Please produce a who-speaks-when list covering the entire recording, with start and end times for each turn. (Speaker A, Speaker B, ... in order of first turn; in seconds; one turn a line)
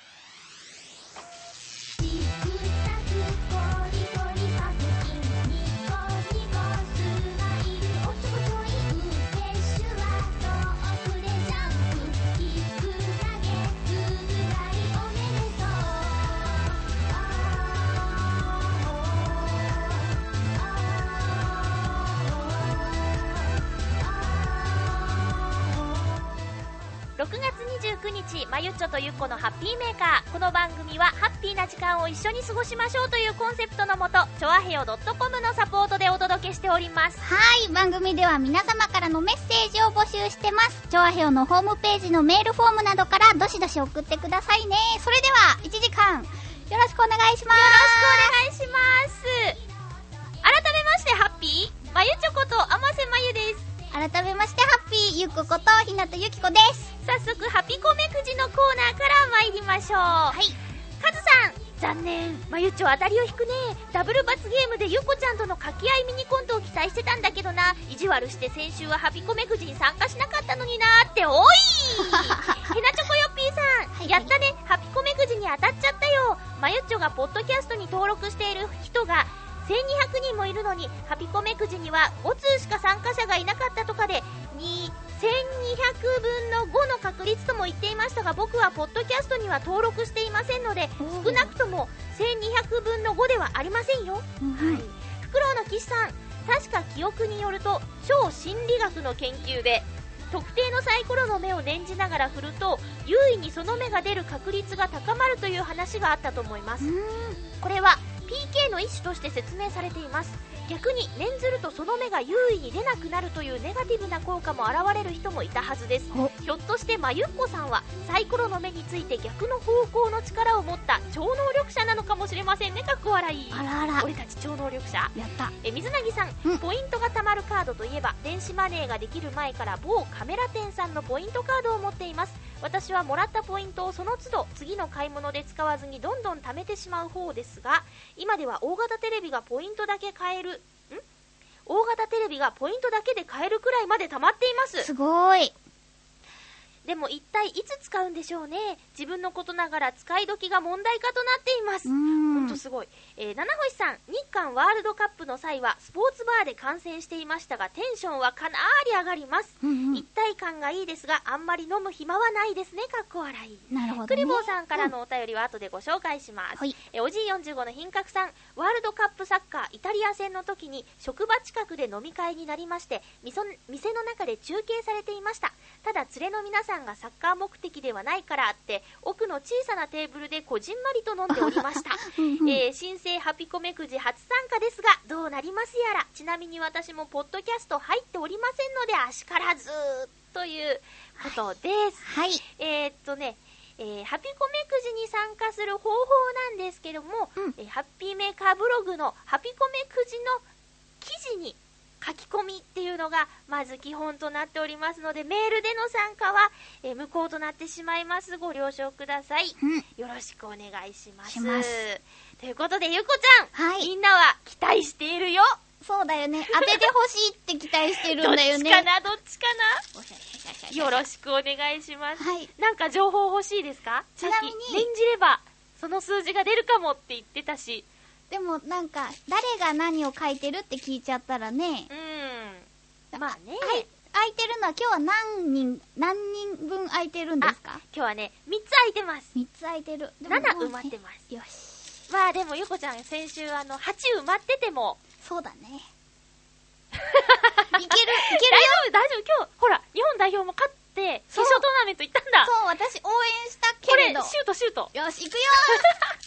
Speaker A: 2.0-26.2
Speaker B: 27.2-37.2
Speaker C: 37.2-48.3
Speaker B: 47.5-49.6
Speaker B: 50.4-53.7
Speaker C: 53.9-56.9
Speaker B: 57.0-60.4
Speaker C: 60.3-60.6
Speaker B: 61.0-106.9
Speaker C: 74.0-74.3
Speaker C: 91.0-91.5
Speaker C: 94.4-94.8
Speaker C: 106.8-107.4
Speaker B: 107.6-141.0
Speaker C: 123.5-124.1
Speaker C: 125.2-125.5
Speaker B: 141.7-144.9
Speaker C: 144.8-145.6
Speaker B: 146.8-200.4
Speaker C: 151.9-152.6
Speaker C: 159.6-160.1
Speaker C: 163.7-164.9
Speaker C: 181.3-182.6
Speaker C: 192.0-192.4
Speaker B: 201.0-215.6
Speaker C: 209.6-209.8
Speaker C: 211.3-211.8
Speaker C: 213.5-213.9
Speaker C: 215.8-218.9
Speaker B: 216.5-216.9
Speaker B: 218.0-219.8
Speaker C: 219.9-221.0
Speaker B: 220.7-227.9
Speaker C: 222.2-222.5
Speaker C: 224.2-224.9
Speaker C: 228.3-231.9
Speaker B: 231.9-233.9
Speaker C: 233.1-237.8
Speaker B: 237.4-239.3
Speaker C: 239.3-242.0
Speaker B: 240.3-241.2
Speaker B: 242.1-245.0
Speaker C: 245.2-245.8
Speaker B: 246.9-252.5
Speaker C: 247.7-248.8
Speaker C: 251.3-251.7
Speaker C: 252.4-254.4
Speaker B: 253.9-254.9
Speaker C: 254.9-255.8
Speaker B: 255.7-256.1